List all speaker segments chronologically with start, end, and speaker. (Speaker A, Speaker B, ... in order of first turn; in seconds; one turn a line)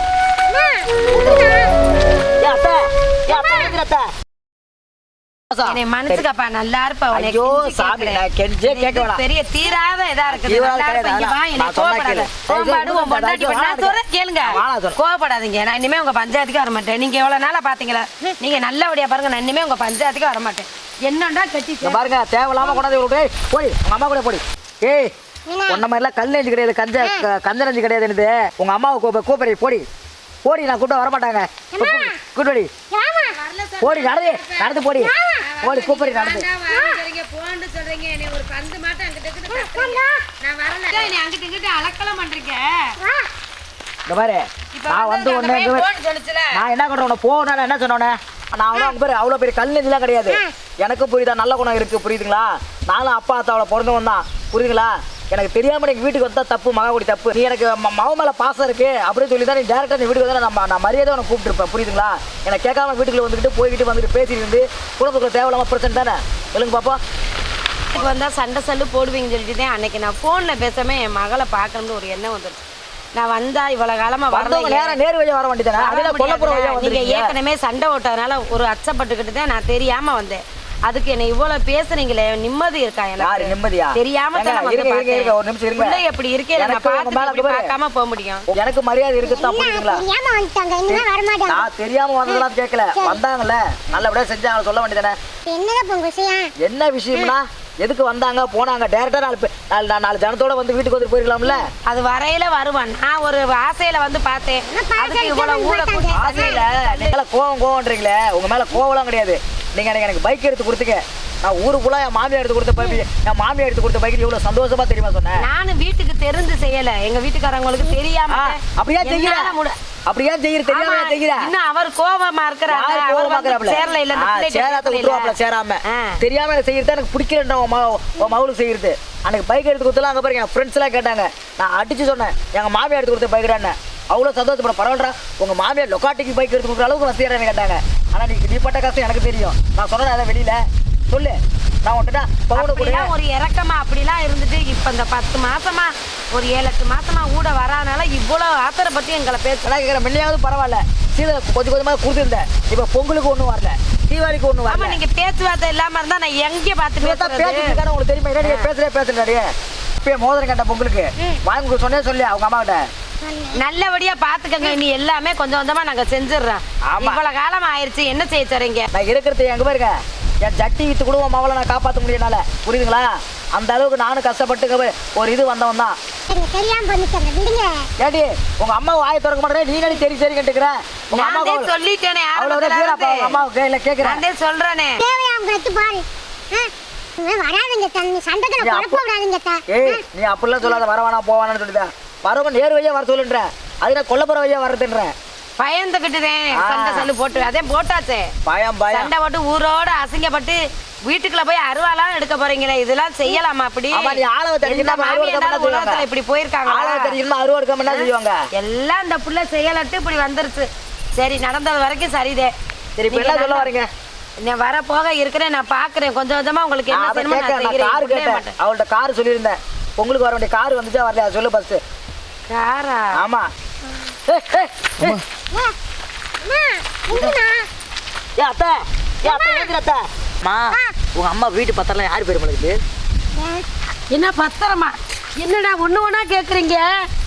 Speaker A: 0.5-1.7
Speaker B: 1.1-1.4
Speaker B: 2.4-4.1
Speaker A: 3.3-3.7
Speaker B: 5.5-6.2
Speaker C: 5.6-22.0
Speaker B: 7.1-9.2
Speaker B: 10.3-15.0
Speaker B: 21.8-25.1
Speaker A: 25.5-25.8
Speaker B: 25.7-29.8
Speaker A: 27.0-27.2
Speaker B: 30.4-32.7
Speaker A: 31.7-32.2
Speaker A: 32.9-33.4
Speaker C: 33.2-34.8
Speaker B: 33.8-36.5
Speaker A: 35.0-35.4
Speaker C: 35.4-43.0
Speaker A: 36.7-37.0
Speaker A: 39.5-40.2
Speaker A: 43.0-43.3
Speaker B: 44.1-45.9
Speaker C: 44.7-46.6
Speaker B: 46.5-67.0
Speaker A: 50.3-50.5
Speaker C: 67.9-75.0
Speaker B: 74.3-77.3
Speaker C: 75.8-88.5
Speaker B: 83.2-86.0
Speaker B: 86.6-87.7
Speaker B: 88.5-90.0
Speaker A: 89.2-91.7
Speaker B: 90.9-95.2
Speaker A: 92.2-93.2
Speaker A: 95.5-96.5
Speaker B: 96.6-101.7
Speaker C: 101.8-107.1
Speaker A: 104.7-106.6
Speaker B: 106.1-115.5
Speaker C: 115.4-119.8
Speaker B: 118.3-119.5
Speaker B: 120.1-121.5
Speaker C: 120.7-126.2
Speaker B: 122.7-143.1
Speaker C: 142.5-149.7
Speaker B: 149.6-155.0
Speaker C: 154.7-157.8
Speaker B: 157.0-159.5
Speaker C: 158.4-158.7
Speaker B: 160.0-162.8
Speaker A: 163.2-163.6
Speaker C: 163.5-168.9
Speaker B: 166.9-167.2
Speaker B: 168.9-175.9
Speaker A: 176.3-177.9
Speaker B: 178.0-181.7
Speaker C: 181.1-183.4
Speaker B: 182.3-184.2
Speaker C: 184.0-185.0
Speaker A: 185.0-190.0
Speaker B: 188.6-189.0
Speaker B: 189.7-195.1
Speaker C: 195.6-198.3
Speaker B: 196.5-197.1
Speaker B: 198.4-199.1
Speaker C: 198.9-207.2
Speaker B: 203.9-206.1
Speaker B: 206.7-208.4
Speaker C: 207.8-212.5
Speaker B: 213.0-213.9
Speaker C: 213.1-213.7
Speaker C: 214.4-218.5
Speaker B: 216.9-221.8
Speaker C: 222.5-223.2
Speaker B: 223.2-223.5
Speaker B: 224.3-225.2
Speaker A: 226.4-227.7
Speaker B: 228.4-232.8
Speaker A: 229.2-229.7
Speaker A: 233.3-233.6
Speaker C: 234.1-237.1